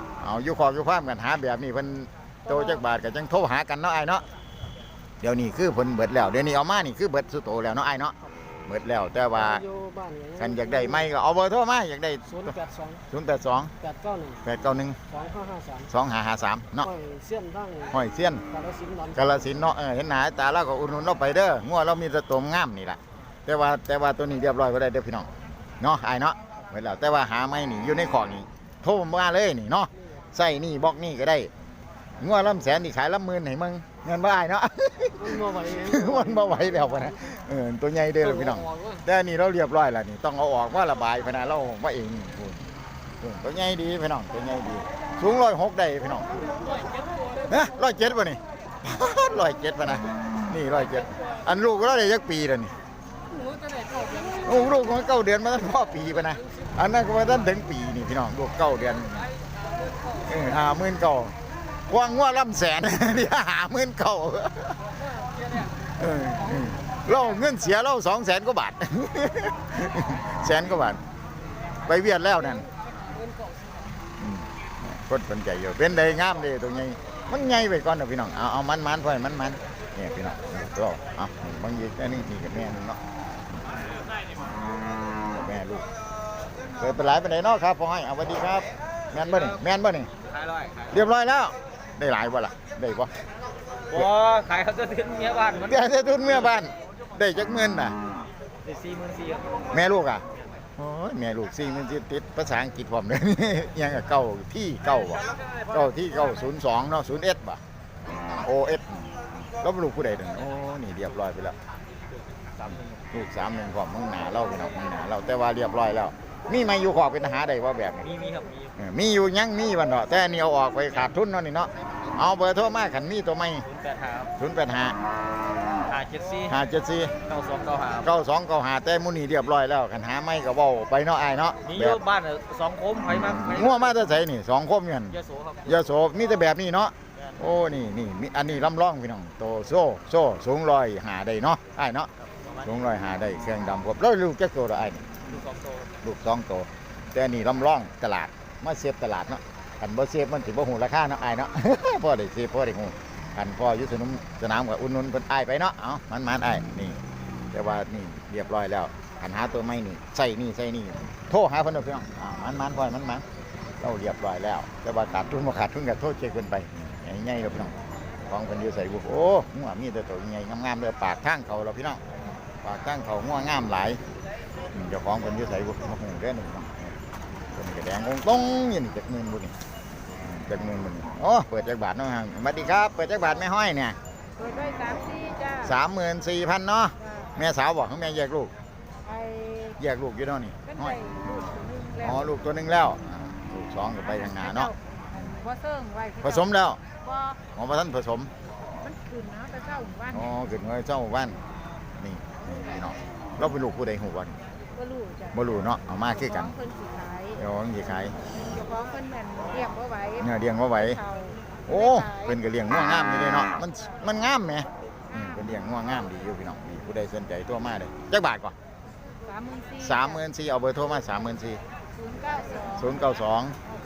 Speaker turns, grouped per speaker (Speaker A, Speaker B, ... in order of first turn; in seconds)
Speaker A: 0.2-4.2, 5.2-8.2, 8.7-9.6, 10.4-12.6, 13.1-13.7, 14.4-15.0, 15.9-16.9, 17.9-18.4, 19.2-31.5, 32.2-46.3, 47.5-52.7, 54.4-59.3, 60.2-61.4, 61.9-65.0, 65.8-71.0, 71.8-72.7, 74.2-83.0, 85.3-85.9, 86.8-90.1, 90.9-93.1, 95.6-98.0, 99.7-100.2, 100.8-107.6, 108.3-111.6, 112.7-118.1, 118.8-123.7, 124.4-125.0, 126.5-127.2, 128.0-132.0, 133.1-145.1, 146.0-157.0, 157.5-163.2, 163.8-167.7, 168.3-172.0, 172.6-174.0, 174.7-177.0, 177.5-179.5, 180.2-184.0, 185.6-188.5, 189.8-191.0, 192.0-195.4, 196.2-196.8, 197.5-198.3, 200.0-201.4, 202.0-204.4, 205.3-206.6, 207.4-208.4, 210.2-211.0, 211.7-218.6, 219.8-221.6, 222.7-223.6
Speaker B: 9.7-10.4, 12.5-13.0, 13.8-14.4, 15.1-15.8, 16.9-17.9, 18.5-19.1, 35.3-36.2, 46.6-47.3, 53.3-54.4, 73.1-73.5
Speaker C: 90.3-90.9, 93.9-95.8, 98.7-99.6, 118.1-118.7, 123.7-124.3, 125.9-126.5, 127.3-128.1, 131.7-133.9, 135.1-135.8, 145.3-145.9
Speaker D: 184.5-185.6, 189.2-189.6, 195.8-196.1, 199.2-199.9, 208.7-210.1, 219.4-219.7, 222.2-222.7